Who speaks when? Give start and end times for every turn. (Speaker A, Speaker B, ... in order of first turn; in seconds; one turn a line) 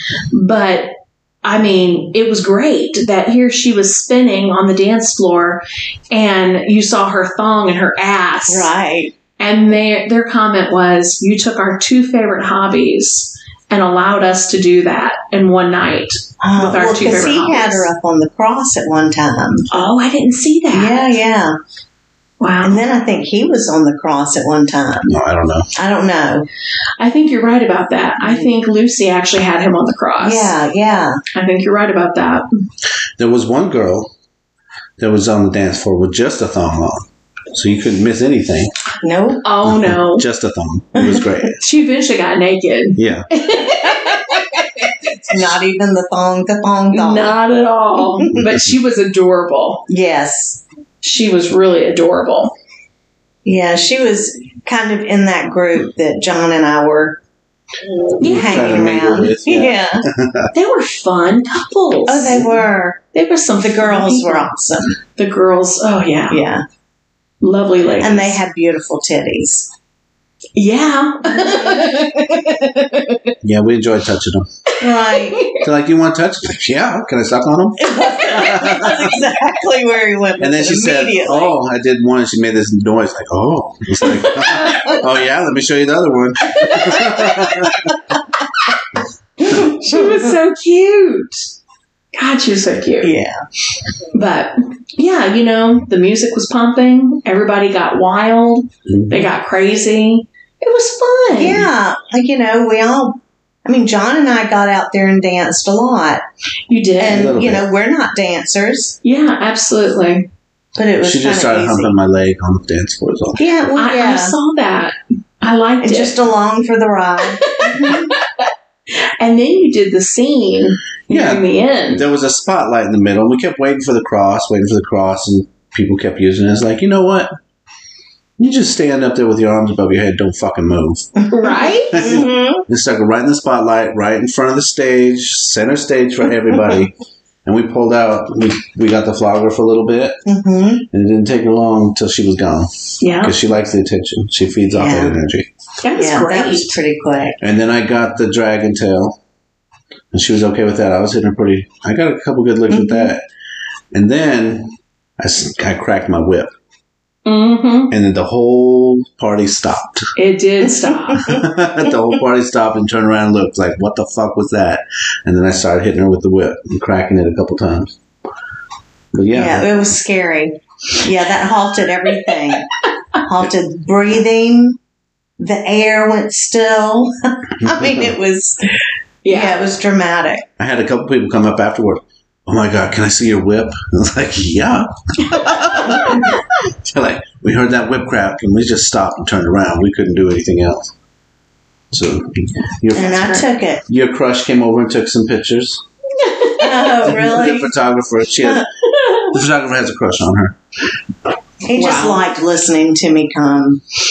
Speaker A: 0.3-8.7
Speaker B: 8.5-9.1
Speaker A: 9.4-17.9
Speaker B: 16.4-19.7
Speaker A: 19.7-21.2
Speaker B: 20.7-21.6
Speaker A: 22.4-22.8
Speaker B: 22.6-25.1
Speaker C: 25.1-25.7
Speaker B: 25.8-26.5
Speaker A: 27.0-30.5
Speaker B: 28.2-28.5
Speaker B: 30.2-31.2
Speaker A: 31.4-32.5
Speaker C: 33.2-34.1
Speaker C: 35.0-38.7
Speaker B: 39.0-39.4
Speaker A: 39.4-40.3
Speaker C: 39.7-41.6
Speaker B: 41.0-41.5
Speaker A: 41.6-45.1
Speaker C: 43.0-43.3
Speaker B: 43.9-47.3
Speaker A: 46.9-49.9
Speaker B: 48.0-48.4
Speaker C: 48.4-48.7
Speaker B: 49.9-50.6
Speaker A: 51.0-52.5
Speaker B: 53.5-57.2
Speaker A: 58.2-58.8
Speaker B: 58.2-60.0
Speaker C: 58.2-60.5
Speaker A: 60.5-62.5
Speaker B: 62.1-63.0
Speaker A: 63.1-64.5
Speaker B: 63.6-65.0
Speaker A: 65.2-66.4
Speaker B: 66.3-66.6
Speaker A: 67.4-68.4
Speaker B: 68.0-69.7
Speaker A: 70.6-73.3
Speaker B: 71.3-72.1
Speaker C: 73.4-74.5
Speaker A: 74.7-75.7
Speaker B: 74.8-75.5
Speaker C: 75.6-79.2
Speaker B: 77.8-81.5
Speaker C: 80.4-87.9
Speaker B: 84.5-85.0
Speaker A: 84.6-85.0
Speaker A: 86.6-87.0
Speaker A: 89.5-91.4
Speaker B: 89.5-90.3
Speaker A: 92.2-93.1
Speaker B: 93.0-93.4
Speaker A: 94.1-101.7
Speaker C: 98.9-99.3
Speaker B: 101.3-106.2
Speaker A: 106.7-107.3
Speaker B: 107.0-109.0
Speaker C: 107.1-107.6
Speaker A: 109.0-110.3
Speaker B: 110.8-111.9
Speaker C: 111.0-113.4
Speaker B: 113.4-114.4
Speaker A: 113.8-116.2
Speaker B: 115.8-118.1
Speaker A: 117.4-122.0
Speaker C: 121.1-127.3
Speaker C: 128.4-131.1
Speaker A: 131.2-132.1
Speaker B: 131.5-132.7
Speaker C: 131.9-136.9
Speaker C: 137.5-140.2
Speaker B: 140.3-140.8
Speaker C: 140.9-145.5
Speaker A: 143.0-143.4
Speaker B: 144.7-145.2
Speaker A: 145.8-146.8
Speaker B: 145.9-147.4
Speaker C: 147.4-149.2
Speaker C: 150.1-153.2
Speaker B: 152.7-153.1
Speaker C: 153.9-156.5
Speaker A: 157.2-157.9
Speaker C: 157.9-160.1
Speaker A: 160.2-161.4
Speaker B: 161.1-161.4
Speaker C: 161.2-167.9
Speaker C: 169.1-169.7
Speaker B: 169.3-172.7
Speaker B: 173.2-174.8
Speaker B: 175.4-178.6
Speaker C: 177.6-178.1
Speaker A: 179.2-179.6
Speaker B: 179.3-180.4
Speaker C: 180.6-190.9
Speaker A: 185.4-186.3
Speaker C: 191.9-195.8
Speaker B: 192.9-193.8
Speaker A: 193.0-193.4
Speaker A: 196.2-197.0
Speaker B: 196.6-197.7
Speaker C: 197.0-200.6
Speaker B: 201.7-203.8
Speaker A: 201.7-202.2